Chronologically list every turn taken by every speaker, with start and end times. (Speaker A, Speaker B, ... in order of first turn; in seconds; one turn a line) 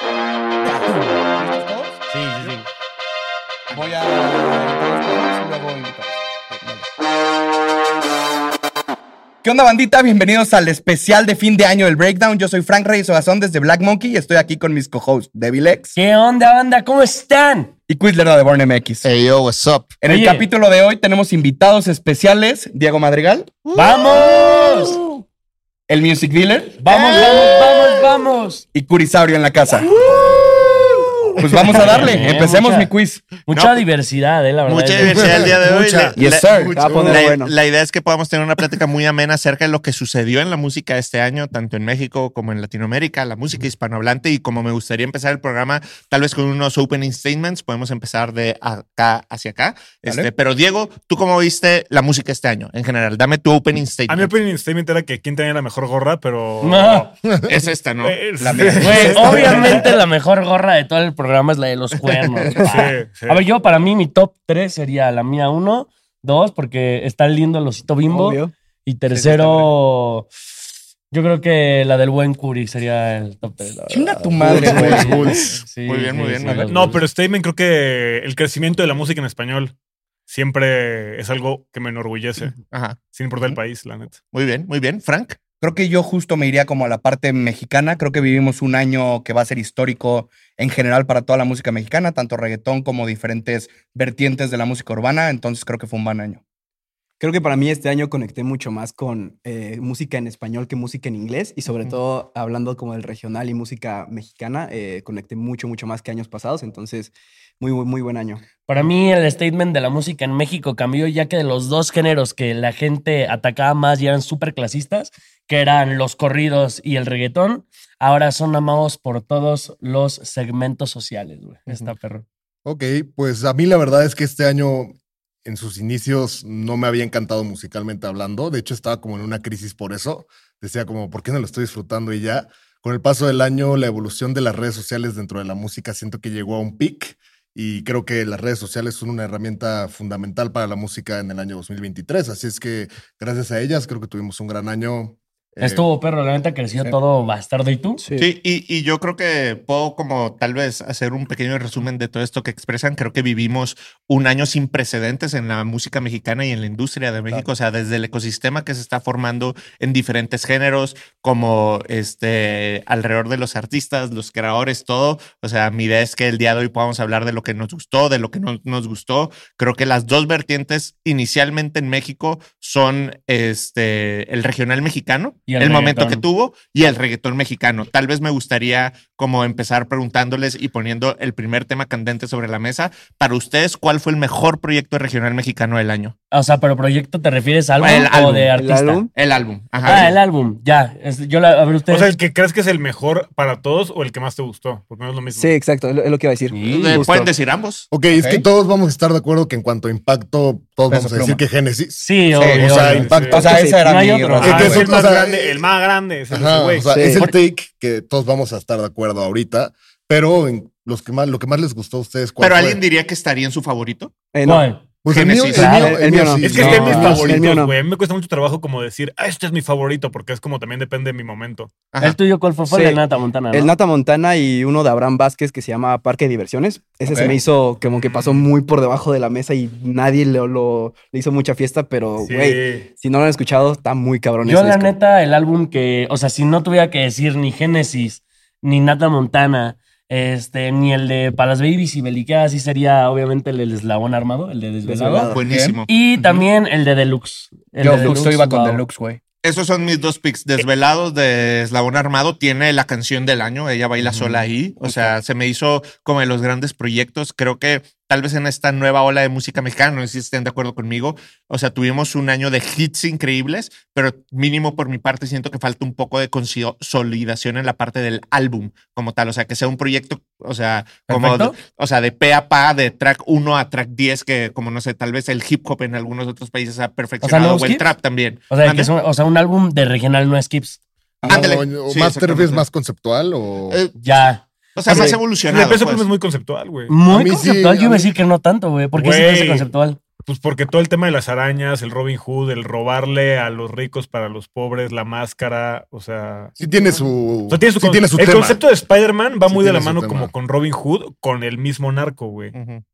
Speaker A: 0.6-2.5
Speaker B: 2.1-2.7
Speaker A: 3.7-6.9
Speaker A: 9.4-16.0
Speaker C: 15.9-17.7
Speaker A: 17.9-19.1
Speaker D: 19.0-20.0
Speaker A: 20.0-23.6
Speaker C: 20.1-20.5
Speaker D: 23.7-24.0
Speaker C: 23.7-25.0
Speaker A: 25.9-26.8
Speaker C: 26.8-28.6
Speaker D: 26.9-27.7
Speaker A: 28.7-29.9
Speaker C: 29.9-30.2
Speaker A: 31.4-33.4
Speaker C: 31.7-35.5
Speaker D: 33.5-33.8
Speaker D: 34.6-54.3
Speaker E: 35.0-37.3
Speaker A: 36.1-36.8
Speaker F: 36.7-37.5
Speaker B: 54.1-57.3
Speaker C: 56.6-57.1
Speaker D: 57.4-58.4
Speaker B: 58.0-59.9
Speaker A: 58.4-59.9
Speaker C: 58.8-70.3
Speaker B: 62.6-63.4
Speaker F: 68.1-68.5
Speaker A: 69.1-69.7
Speaker C: 71.1-77.0
Speaker A: 73.9-75.3
Speaker F: 74.4-75.4
Speaker D: 74.6-76.7
Speaker A: 76.4-76.7
Speaker B: 76.7-79.7
Speaker B: 80.3-84.2
Speaker D: 82.4-83.0
Speaker D: 84.3-85.4
Speaker A: 85.6-96.4
Speaker F: 97.2-108.4
Speaker C: 108.7-122.2
Speaker E: 122.6-124.9
Speaker E: 125.4-145.8
Speaker C: 145.6-148.0
Speaker F: 148.0-148.3
Speaker D: 148.2-186.1
Speaker C: 175.5-176.2
Speaker C: 186.3-189.1
Speaker D: 187.8-188.5
Speaker F: 188.6-189.1
Speaker D: 189.1-190.2
Speaker C: 189.8-192.1
Speaker B: 191.9-195.5
Speaker F: 195.3-196.6
Speaker C: 196.5-197.1
Speaker D: 196.7-197.9
Speaker E: 197.9-203.2
Speaker A: 198.1-198.4
Speaker A: 200.9-201.4
Speaker C: 202.0-204.8
Speaker A: 202.3-204.9
Speaker B: 202.5-203.4
Speaker F: 203.3-204.4
Speaker B: 204.4-206.9
Speaker E: 204.4-205.6
Speaker E: 206.3-212.8
Speaker F: 206.9-207.2
Speaker D: 212.4-214.1
Speaker F: 214.3-214.7
Speaker C: 214.4-214.8
Speaker E: 215.0-217.4
Speaker D: 215.1-215.8
Speaker C: 215.5-215.9
Speaker F: 215.7-217.7
Speaker B: 216.4-221.7
Speaker C: 216.6-217.0
Speaker C: 222.0-223.7
Speaker F: 222.7-223.0
Speaker F: 223.5-234.9
Speaker A: 227.1-227.3
Speaker B: 228.0-228.3
Speaker B: 232.2-232.9
Speaker C: 234.4-245.3
Speaker F: 244.8-245.5
Speaker D: 245.2-246.0
Speaker A: 245.4-246.4
Speaker C: 245.9-248.8
Speaker A: 247.8-249.2
Speaker D: 249.4-278.9
Speaker A: 254.0-255.2
Speaker C: 271.1-271.6
Speaker C: 277.2-277.9
Speaker C: 278.5-280.8
Speaker A: 281.2-281.5
Speaker D: 281.2-282.6
Speaker E: 281.3-283.8
Speaker D: 283.7-283.9
Speaker C: 284.0-285.2
Speaker D: 284.7-286.1
Speaker F: 284.9-285.2
Speaker B: 284.9-286.9
Speaker C: 286.9-290.0
Speaker E: 287.1-288.1
Speaker B: 288.9-289.7
Speaker B: 290.2-296.6
Speaker E: 296.6-298.6
Speaker B: 297.5-302.5
Speaker E: 299.5-300.3
Speaker D: 302.5-302.8